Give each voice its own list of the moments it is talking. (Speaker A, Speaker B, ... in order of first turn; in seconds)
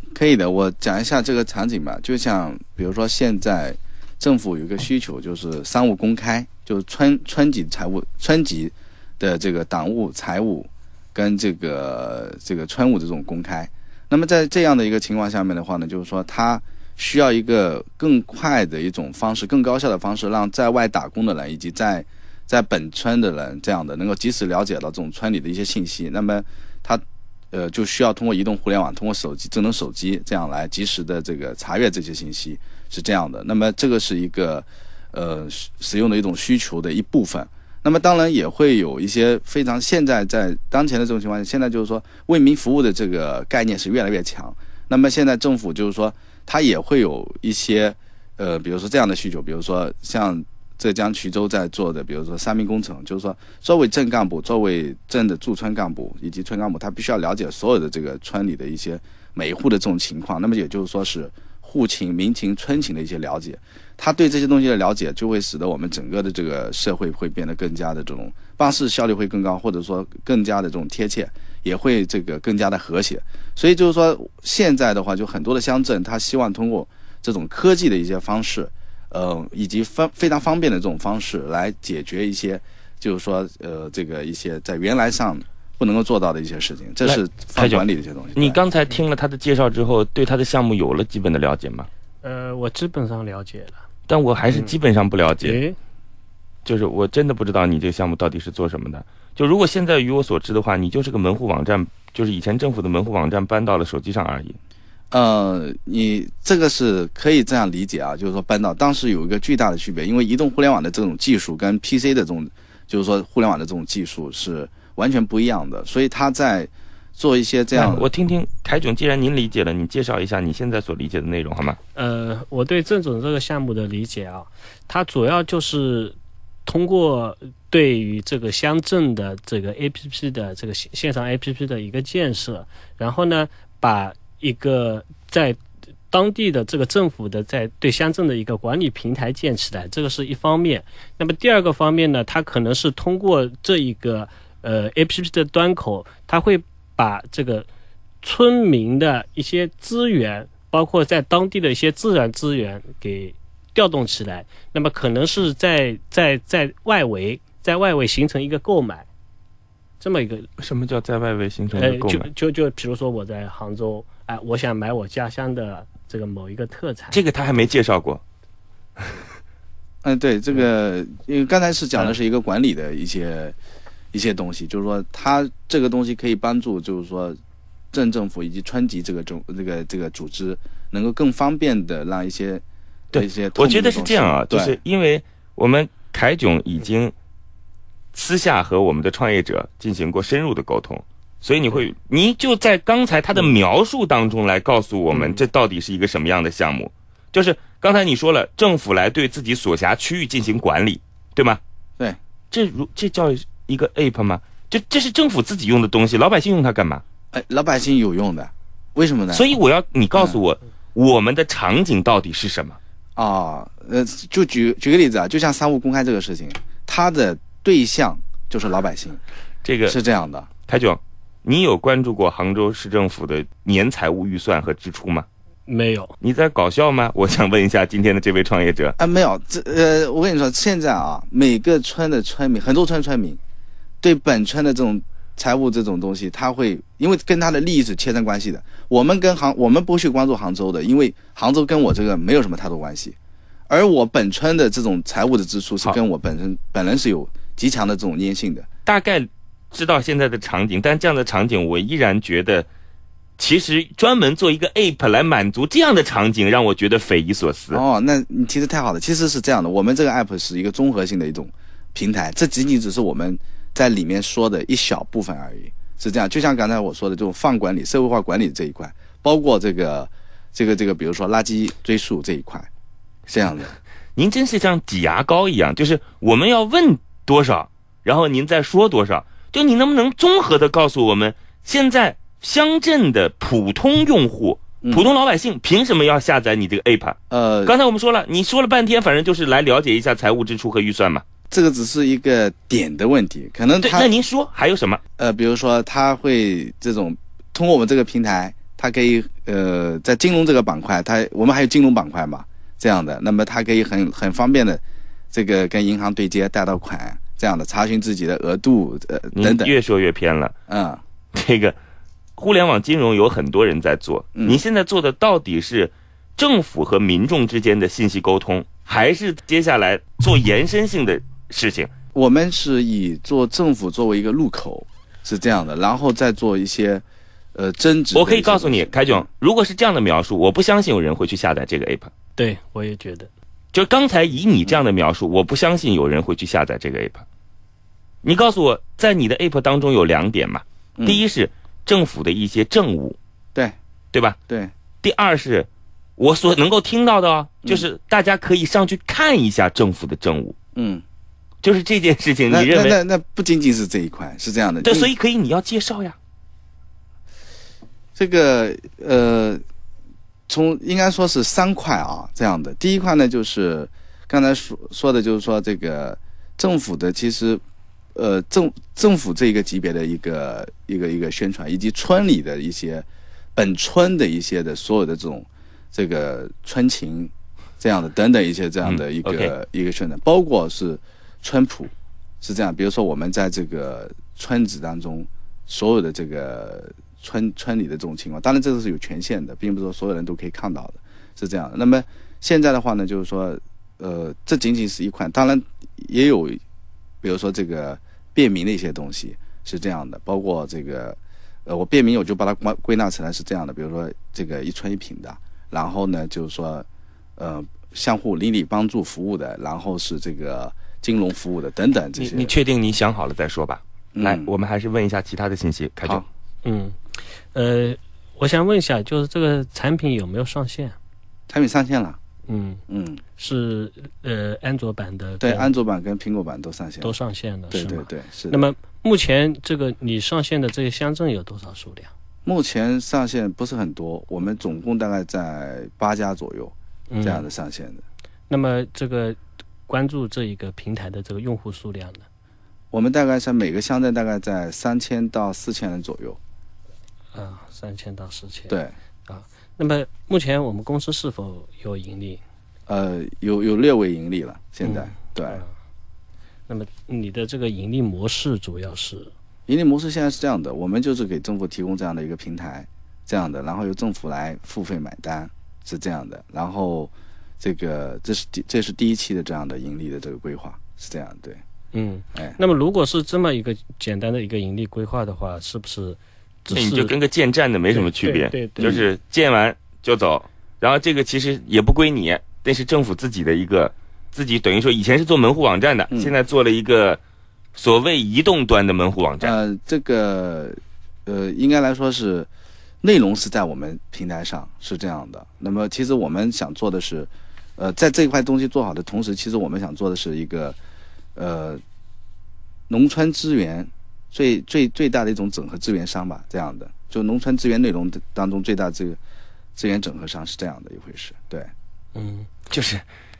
Speaker A: 0.1-88.6, 105.1-118.1, 170.0-173.6, 174.1-177.4, 177.9-184.8, 207.3-209.5, 213.2-219.2, 219.8-220.5, 229.0-233.4, 234.0-243.2, 243.7-248.7, 257.7-272.7, 273.3-273.7, 284.8-285.1, 287.3-287.7, 291.5-294.1, 295.2-309.7, 310.7-311.0, 314.4-314.6, 322.1-329.2, 341.0-341.2, 350.7-351.0, 352.5-355.1, 358.1-359.6, 360.5-367.6, 368.1-396.6, 397.2-406.9, 407.4-412.5, 414.1-414.5, 421.5-422.2, 422.9-423.2, 425.4-427.1, 427.7-428.6, 432.4-438.0, 442.9-446.4, 448.7-448.9, 452.9-455.6, 459.7-471.6, 478.8-479.1, 489.4-492.5, 493.0-500.8, 501.3-501.8, 502.9-509.2, 509.8-511.7
Speaker B: 87.0-87.8, 88.3-91.9, 94.1-95.6, 96.6-104.6, 117.7-121.8, 160.6-162.3, 167.1-168.2, 183.1-187.1, 188.1-201.6, 202.5-207.0, 209.3-212.8, 219.6-219.9, 220.6-225.2, 226.2-229.0, 248.8-252.7, 253.4-257.8, 274.1-291.2, 293.8-295.0, 309.3-310.5, 311.3-311.8, 312.4-321.9, 328.1-332.1, 333.7-337.2, 338.2-343.2, 344.1-344.4, 345.0-350.5, 351.6-352.9, 354.8-356.1, 378.8-379.5, 412.2-416.2, 476.7-487.2, 487.8-489.6, 512.7-513.0
Speaker C: 92.2-93.8, 95.4-95.8, 121.9-135.6, 136.1-147.7, 148.2-159.1, 160.0-160.5, 161.7-167.2, 225.7-226.1, 332.4-333.3, 416.6-417.0, 417.5-420.9, 422.5-422.8, 423.4-425.7, 427.0-432.1, 437.1-437.4, 438.5-442.2, 447.3-448.8, 449.3-452.4, 454.8-455.7, 456.7-459.3, 471.9-477.1, 477.9-478.9, 512.1-512.5